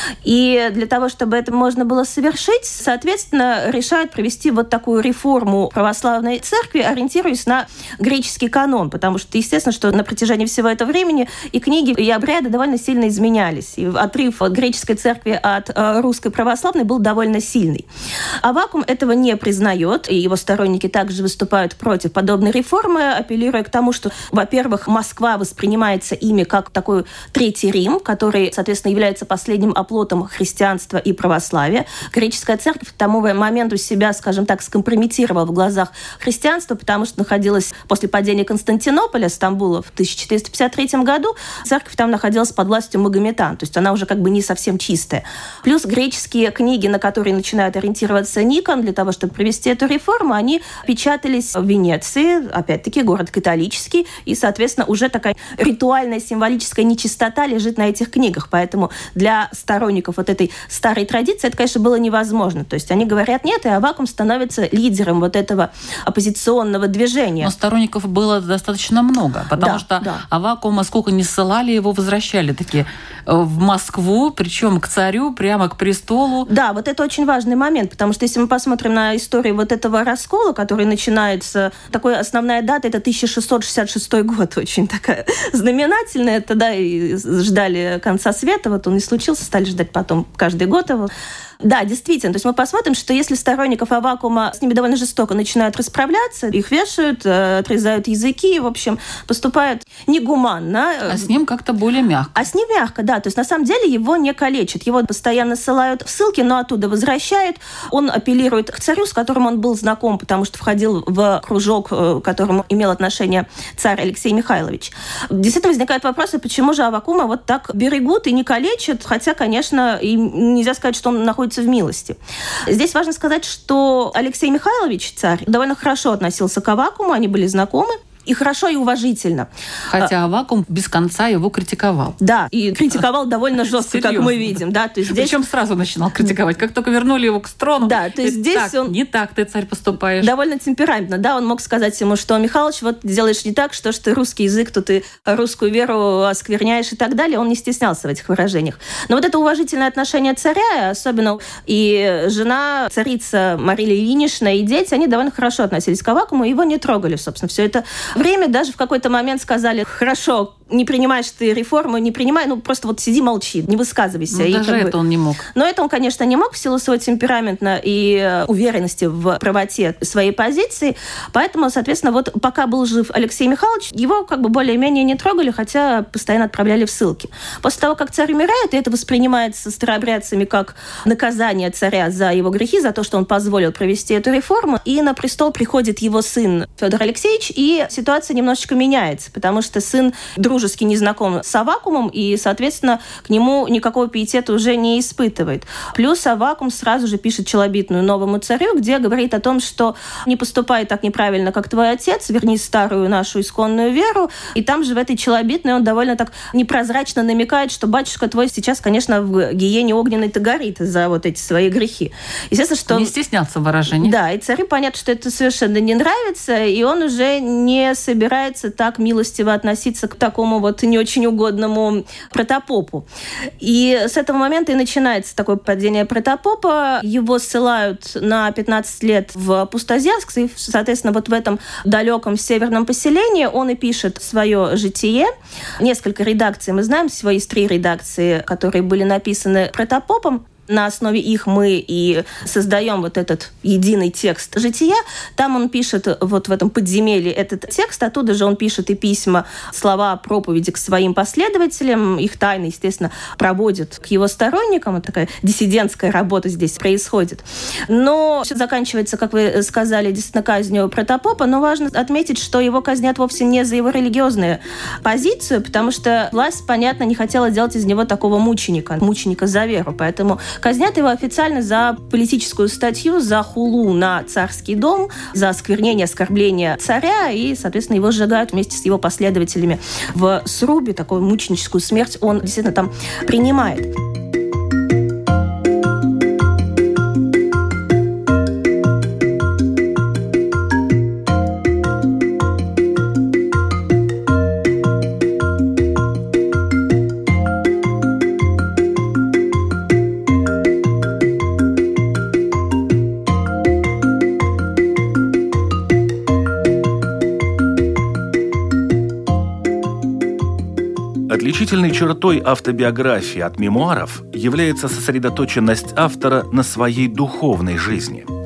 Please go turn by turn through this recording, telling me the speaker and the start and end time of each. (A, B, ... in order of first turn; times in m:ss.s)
0:00.2-0:17.8 A
0:18.4-1:07.5 A
1:07.4-1:16.5 B
1:09.6-1:10.2 A
1:16.5-1:41.3 A
1:41.1-1:42.4 B
1:42.4-2:10.1 A
2:09.9-2:12.2 B
2:12.2-2:15.4 A
2:13.6-2:20.3 B
2:17.8-2:18.9 A
2:20.2-2:44.9 A
2:44.3-2:45.4 B
2:45.5-3:33.1 A
3:32.9-3:34.2 B
3:34.0-3:43.0 A
3:43.6-4:43.9 A
5:11.3-5:18.3 C